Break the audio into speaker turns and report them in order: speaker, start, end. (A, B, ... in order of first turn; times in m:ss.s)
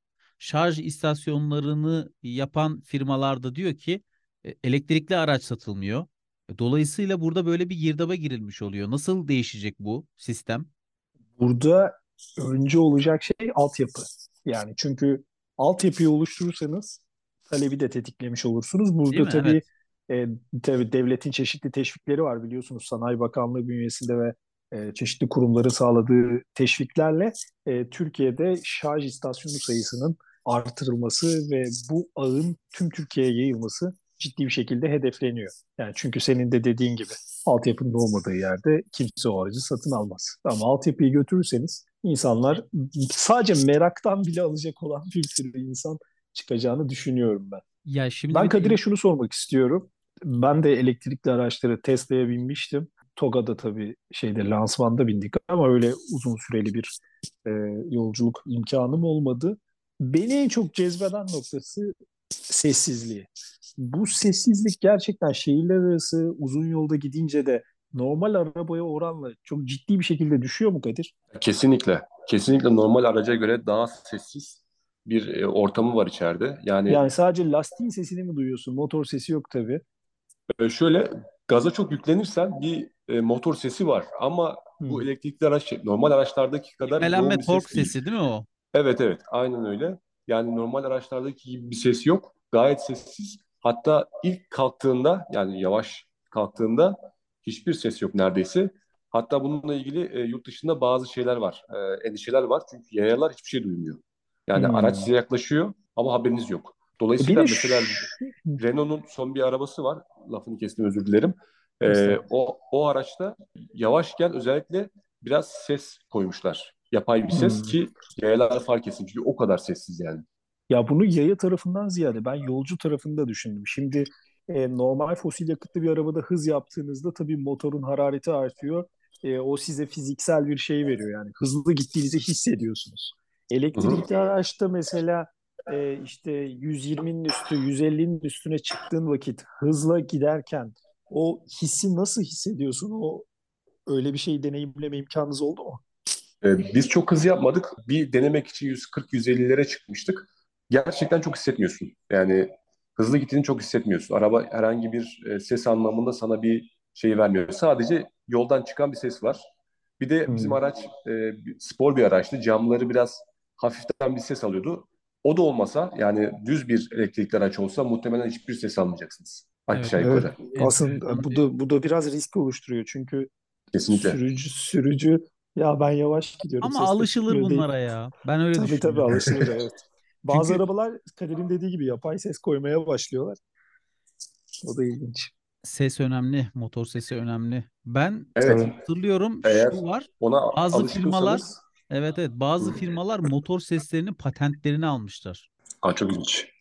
0:00.4-0:10.7 A
0:11.4-0:47.6 B
0:19.1-0:19.6 A
0:47.8-0:48.8 A
0:48.3-1:01.9 B
1:02.5-1:11.1 B
1:11.3-1:17.0 C
1:16.9-1:19.8 B
1:20.6-1:27.9 C
1:24.8-1:25.1 B
1:26.8-1:28.5 A
1:28.7-2:00.2 C
1:44.6-1:45.1 B
1:47.2-1:48.6 B
1:51.9-1:52.2 B
1:57.3-1:57.8 B
2:00.7-2:23.3 B
2:13.8-2:14.0 C
2:23.9-2:25.8 B
2:26.4-2:39.4 C
2:40.0-2:50.4 C
2:40.3-2:40.6 B
2:49.7-2:51.4 A
2:50.0-2:53.3 B
2:53.7-2:54.2 C
2:53.9-2:57.7 B
2:56.6-2:59.2 A
2:58.6-3:03.4 B
3:00.3-3:00.6 A
3:04.6-3:05.3 B
3:05.6-3:15.5 A
3:08.4-3:08.8 C
3:09.4-3:11.6 C
3:15.8-3:16.5 C